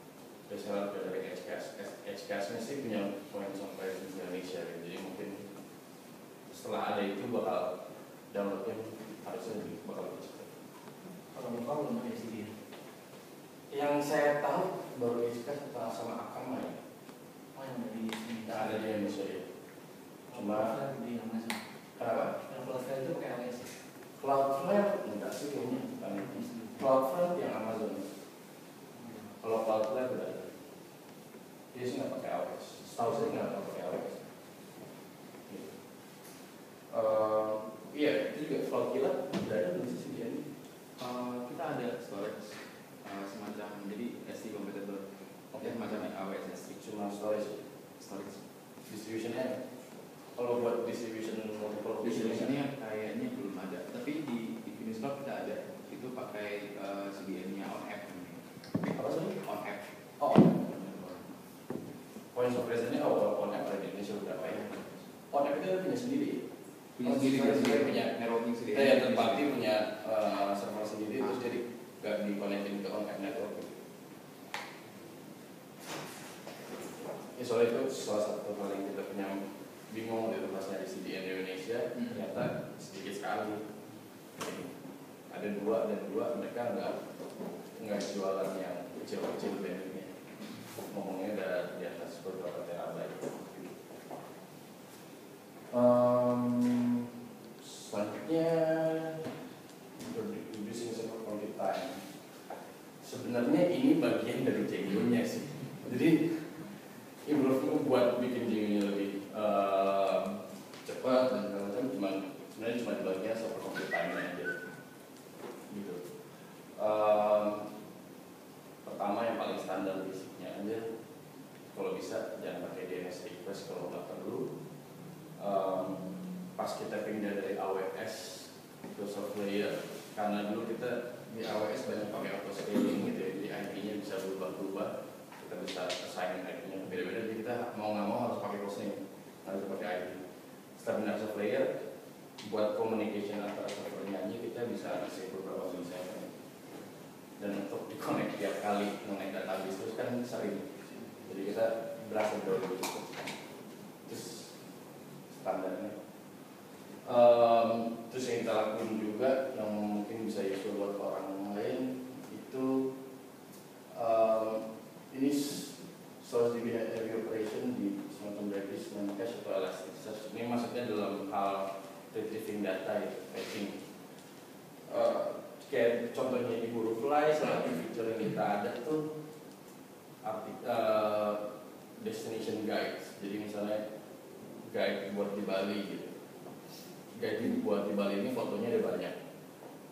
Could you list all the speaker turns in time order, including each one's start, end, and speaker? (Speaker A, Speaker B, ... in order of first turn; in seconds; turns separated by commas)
Speaker A: 0.5-5.4, Speaker A: 6.5-7.7, Speaker A: 8.3-10.5, Speaker B: 11.3-12.5, Speaker A: 13.7-16.8, Speaker B: 17.6-18.7, Speaker A: 18.5-19.5, Speaker B: 20.3-21.6, Speaker A: 20.3-20.7, Speaker A: 22.0-22.3, Speaker B: 22.3-23.7, Speaker A: 24.2-28.1, Speaker B: 26.3-26.7, Speaker A: 29.4-30.5, Speaker A: 31.7-34.3, Speaker A: 36.9-40.5, Speaker C: 41.0-46.8, Speaker A: 46.7-47.6, Speaker C: 48.0-48.4, Speaker A: 48.9-49.6, Speaker A: 50.4-52.5, Speaker C: 52.0-58.4, Speaker A: 59.0-59.4, Speaker C: 59.4-59.9, Speaker A: 60.2-60.6, Speaker C: 60.6-61.3, Speaker A: 62.3-64.7, Speaker C: 64.7-65.0, Speaker A: 65.3-66.4, Speaker C: 67.0-69.5, Speaker A: 67.0-68.1, Speaker A: 68.7-73.7, Speaker A: 77.4-83.6, Speaker A: 84.4-84.7, Speaker A: 85.3-87.0, Speaker A: 87.8-90.1, Speaker A: 90.9-93.8, Speaker A: 95.7-97.1, Speaker A: 97.6-99.2, Speaker A: 100.0-102.0, Speaker A: 103.0-106.5, Speaker A: 107.3-114.6, Speaker A: 115.7-116.0, Speaker A: 116.8-117.7, Speaker A: 118.8-120.8, Speaker A: 121.7-124.5, Speaker A: 125.4-140.2, Speaker A: 140.8-141.7, Speaker A: 142.4-146.3, Speaker A: 147.4-153.3, Speaker A: 154.1-154.5, Speaker A: 155.3-156.0, Speaker A: 157.1-162.9, Speaker A: 163.9-173.8, Speaker A: 174.9-179.1, Speaker A: 180.2-181.4, Speaker A: 182.0-183.8, Speaker A: 184.6-186.1, Speaker A: 187.1-189.2